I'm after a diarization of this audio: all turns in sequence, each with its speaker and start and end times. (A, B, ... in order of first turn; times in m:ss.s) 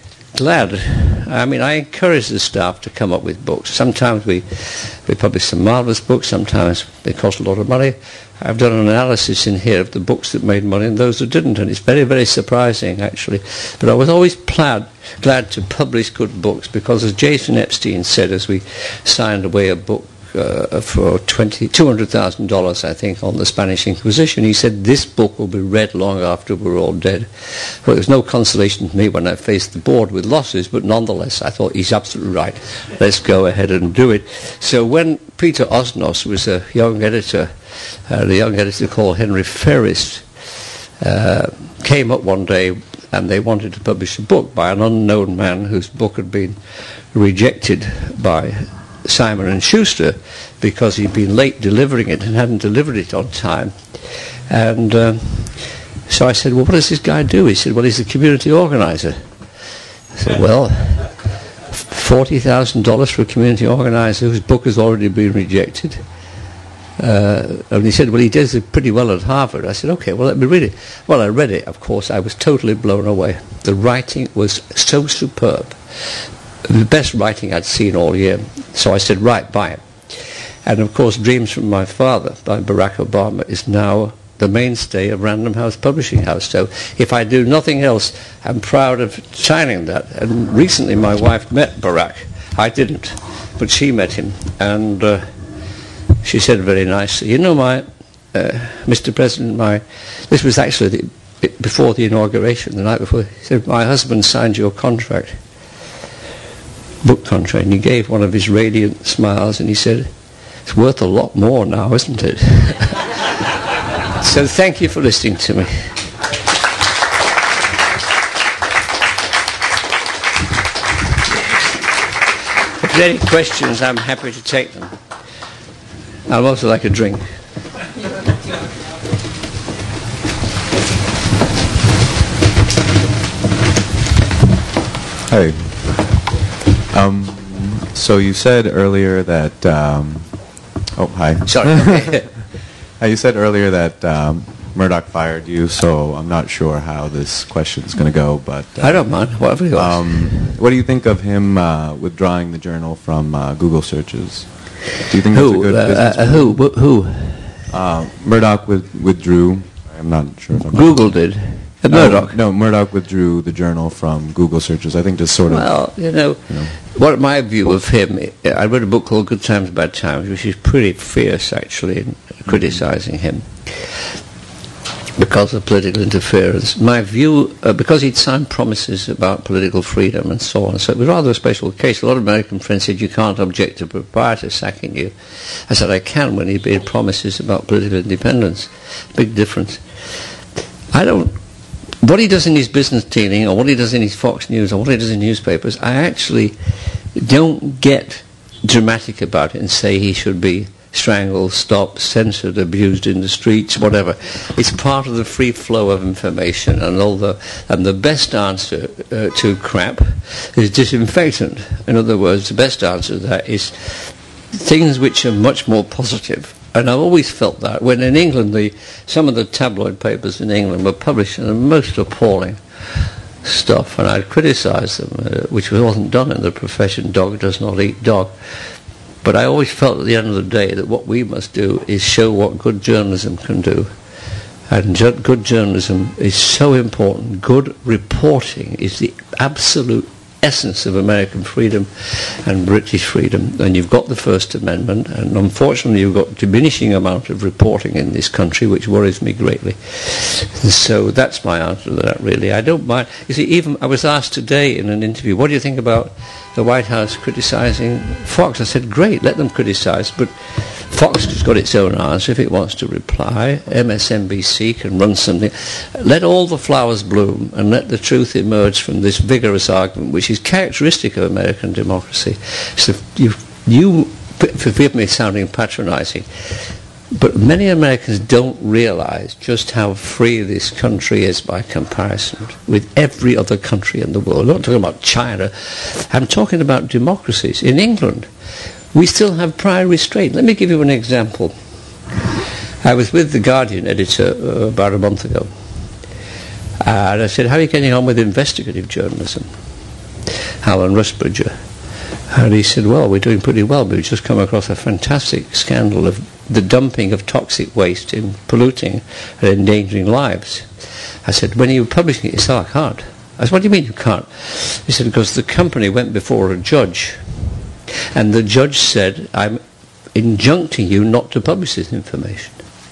0:00.3-0:37.5 A
0:38.1-0:40.2 A
0:41.0-0:46.6 A
0:47.1-0:59.2 A
1:00.1-1:01.2 A
1:01.7-1:06.0 A
1:07.0-1:19.8 A
1:20.6-1:35.2 A
1:36.2-1:45.4 A
1:47.0-1:50.1 A
1:50.6-1:53.4 A
1:54.0-1:55.9 A
2:02.6-2:04.9 A
2:06.3-2:07.3 A
2:15.3-2:16.0 B
2:16.9-2:20.3 B
2:21.0-2:22.1 B
2:21.5-2:22.3 A
2:23.0-2:29.1 B
2:28.8-2:30.5 A
2:29.7-2:36.6 B
2:35.3-2:37.6 A
2:37.7-2:41.1 B
2:40.6-2:42.4 A
2:41.9-2:45.8 B
2:45.5-2:54.0 A
2:46.5-2:46.7 B
2:55.2-3:09.8 A
3:10.9-3:11.4 A
3:12.0-3:16.5 A
3:17.1-3:48.3 A
3:49.2-3:53.9 A
3:54.7-4:48.3 A
4:48.9-4:51.5 A
4:52.8-4:55.5 A
4:56.8-4:59.5 A
5:00.3-5:01.5 A
5:02.3-5:10.7 A
5:11.2-5:17.2 A
5:18.1-5:19.6 A
5:20.1-5:22.6 A